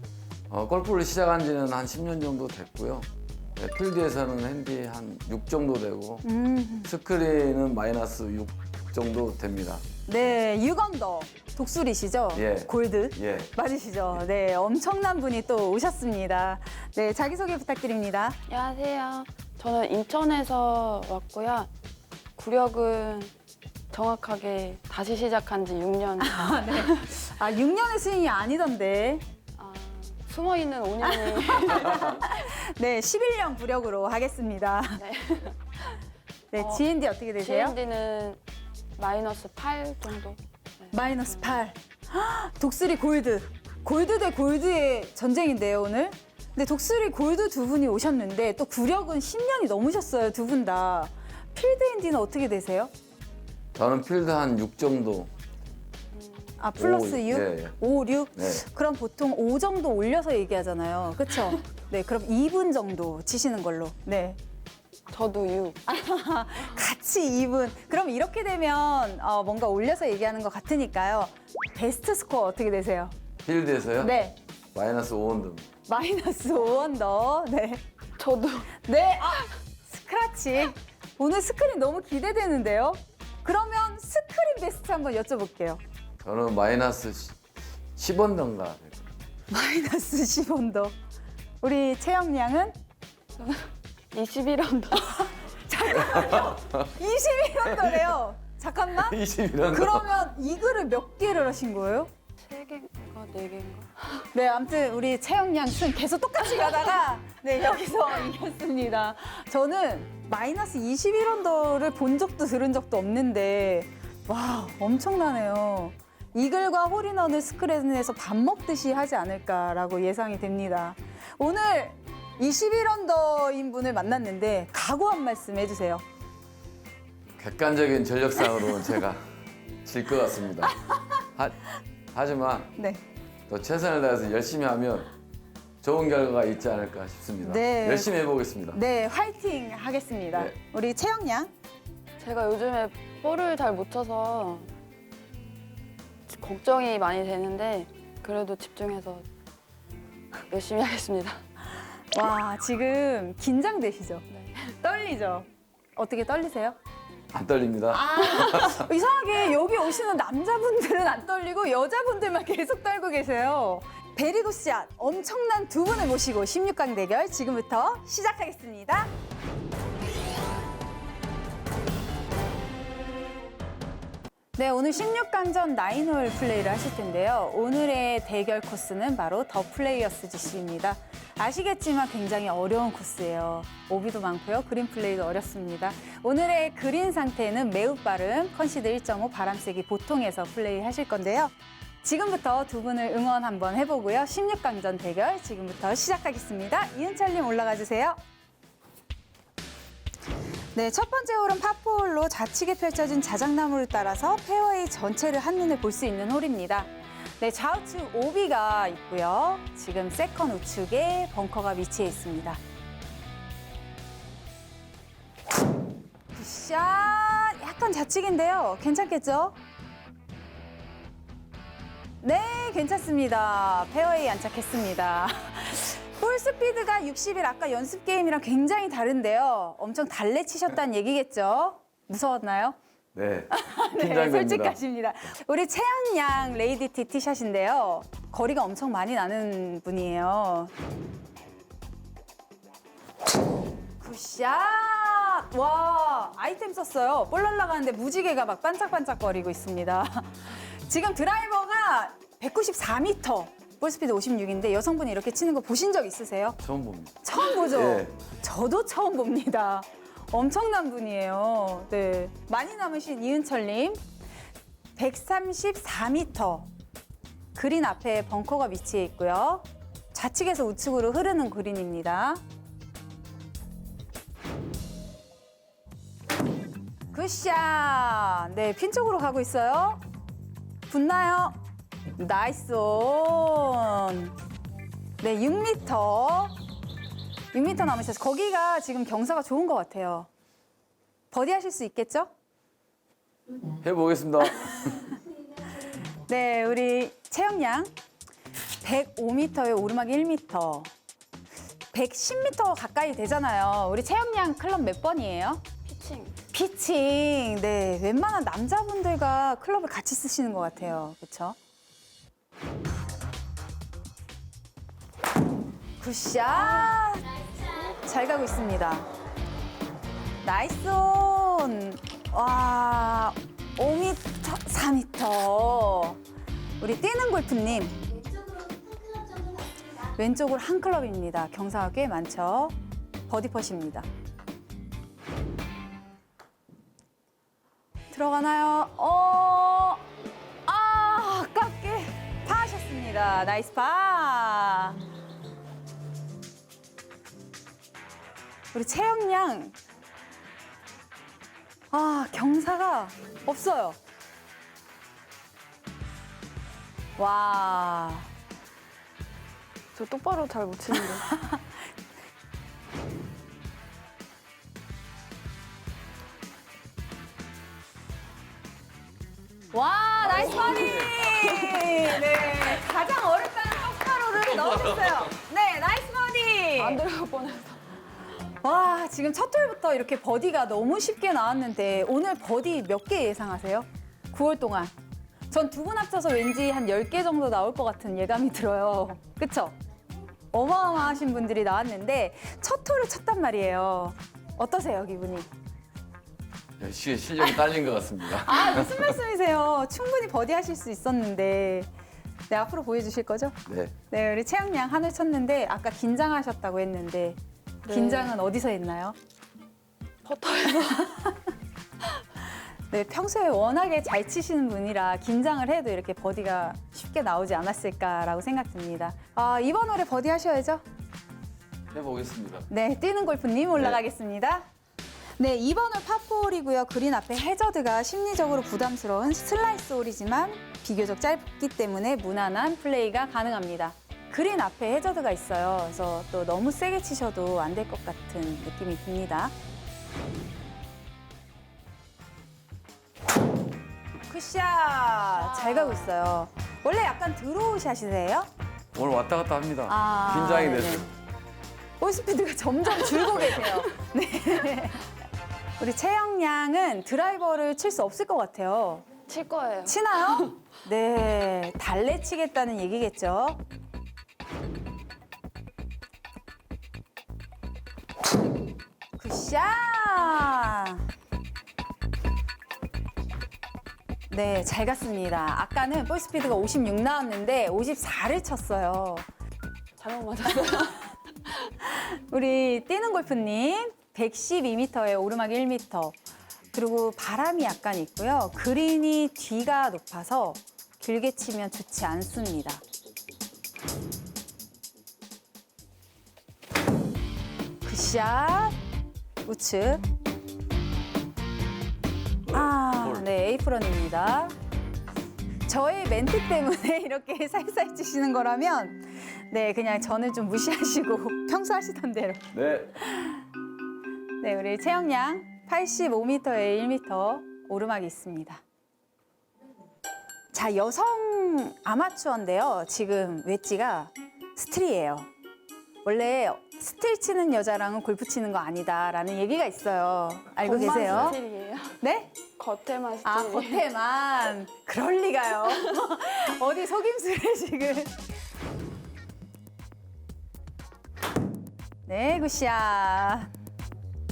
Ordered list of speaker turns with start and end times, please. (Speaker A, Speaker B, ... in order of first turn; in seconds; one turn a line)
Speaker A: 0.5-6.3
Speaker B: 6.2-6.9
Speaker A: 6.8-9.8
Speaker B: 10.1-18.4
Speaker A: 12.3-13.5
Speaker C: 18.5-21.7
Speaker C: 22.4-23.3
Speaker C: 23.9-27.0
Speaker B: 26.2-29.2
Speaker C: 29.6-32.3
Speaker B: 31.0-35.0
Speaker C: 35.0-35.6
Speaker B: 36.5-37.8
Speaker C: 36.6-36.9
Speaker C: 37.4-38.4
Speaker C: 39.0-41.6
Speaker B: 40.9-52.9
Speaker A: 53.8-55.3
Speaker C: 56.1-56.5
Speaker B: 56.6-64.4
Speaker A: 56.8-57.8
Speaker A: 58.4-58.6
Speaker C: 65.1-65.8
Speaker B: 65.9-73.1
Speaker A: 73.5-74.2
Speaker B: 74.0-74.4
Speaker A: 74.7-75.7
Speaker B: 75.9-77.8
Speaker C: 78.2-78.8
Speaker B: 78.8-85.8
Speaker A: 86.2-87.4
Speaker A: 88.0-89.1
Speaker B: 89.5-91.0
Speaker B: 91.6-92.8
Speaker C: 93.4-95.3
Speaker B: 95.1-99.2
Speaker A: 95.9-96.8
Speaker A: 97.7-98.1
Speaker A: 99.0-100.1
Speaker B: 99.7-102.1
Speaker C: 102.5-104.2
Speaker B: 104.3-126.0
Speaker A: 127.4-129.3
Speaker B: 128.5-128.9
Speaker A: 129.8-130.8
Speaker A: 132.1-132.7
Speaker B: 132.8-133.0
Speaker A: 133.5-135.1
Speaker A: 135.8-138.8
Speaker B: 137.4-141.5
Speaker C: 142.2-144.7
Speaker C: 146.3-149.3
Speaker C: 150.5-151.4
Speaker B: 152.1-154.3
Speaker C: 154.3-154.7
Speaker B: 154.8-156.8
Speaker A: 157.3-158.9
Speaker B: 157.9-169.1
Speaker B: 174.6-191.5
Speaker B: 192.0-198.2
Speaker B: 200.8-212.6
Speaker B: 216.3-219.6
Speaker B: 222.2-232.8
Speaker A: 233.2-234.8
Speaker B: 233.5-240.7
Speaker B: 244.0-256.6
Speaker A: 256.6-258.1
Speaker B: 257.2-264.0
Speaker B: 265.0-266.7
Speaker B: 267.6-272.4
Speaker B: 277.1-280.0
Speaker B: 280.9-281.6
Speaker B: 282.2-284.3
Speaker B: 285.2-286.6
Speaker B: 287.5-290.3
Speaker B: 291.3-292.3
Speaker A: 293.8-295.1
Speaker B: 296.3-297.9
Speaker B: 298.8-300.9
Speaker B: 301.9-305.6
Speaker C: 305.9-306.3
Speaker B: 306.5-311.6
Speaker B: 316.0-317.3
Speaker B: 317.8-319.1
Speaker B: 320.4-326.2
Speaker B: 326.8-328.0
Speaker B: 330.1-332.8
Speaker B: 333.3-334.1
Speaker B: 338.1-340.1
Speaker B: 340.7-345.0
Speaker B: 348.7-349.7
Speaker B: 351.9-354.0
Speaker B: 357.2-358.3
Speaker C: 359.9-361.3
Speaker B: 361.1-361.7
Speaker B: 369.7-377.0
Speaker A: 370.2-371.9
Speaker C: 370.4-371.0
Speaker A: 374.4-375.3
Speaker C: 376.8-377.8
Speaker B: 378.6-384.9
Speaker B: 385.5-389.8
Speaker B: 390.5-395.5
Speaker A: 396.8-399.2
Speaker B: 398.3-401.9
Speaker B: 402.5-403.6
Speaker A: 403.7-403.9
Speaker B: 404.1-409.1
Speaker C: 407.9-408.3
Speaker C: 410.2-411.2
Speaker B: 410.8-411.3
Speaker B: 412.9-420.8
Speaker A: 421.9-422.7
Speaker B: 422.7-424.6
Speaker B: 425.4-439.5
Speaker B: 444.3-448.5
Speaker A: 448.9-451.1
Speaker B: 449.9-451.1
Speaker B: 452.0-455.1
Speaker C: 453.1-453.8
Speaker B: 455.8-459.1
Speaker C: 459.3-460.5
Speaker B: 459.9-463.6
Speaker B: 469.2-471.0
Speaker B: 474.3-479.2
Speaker C: 480.0-481.1
Speaker B: 481.9-486.1
Speaker B: 486.7-492.8
Speaker B: 497.9-498.8
Speaker B: 499.4-500.0
Speaker B: 502.5-504.5
Speaker B: 505.7-513.4
Speaker A: 512.5-513.0
Speaker B: 514.4-518.6
Speaker B: 520.5-525.3
Speaker B: 526.0-531.4
Speaker C: 530.6-532.0
Speaker B: 532.0-532.3
Speaker C: 532.6-533.9
Speaker B: 533.2-538.1
Speaker B: 542.1-543.5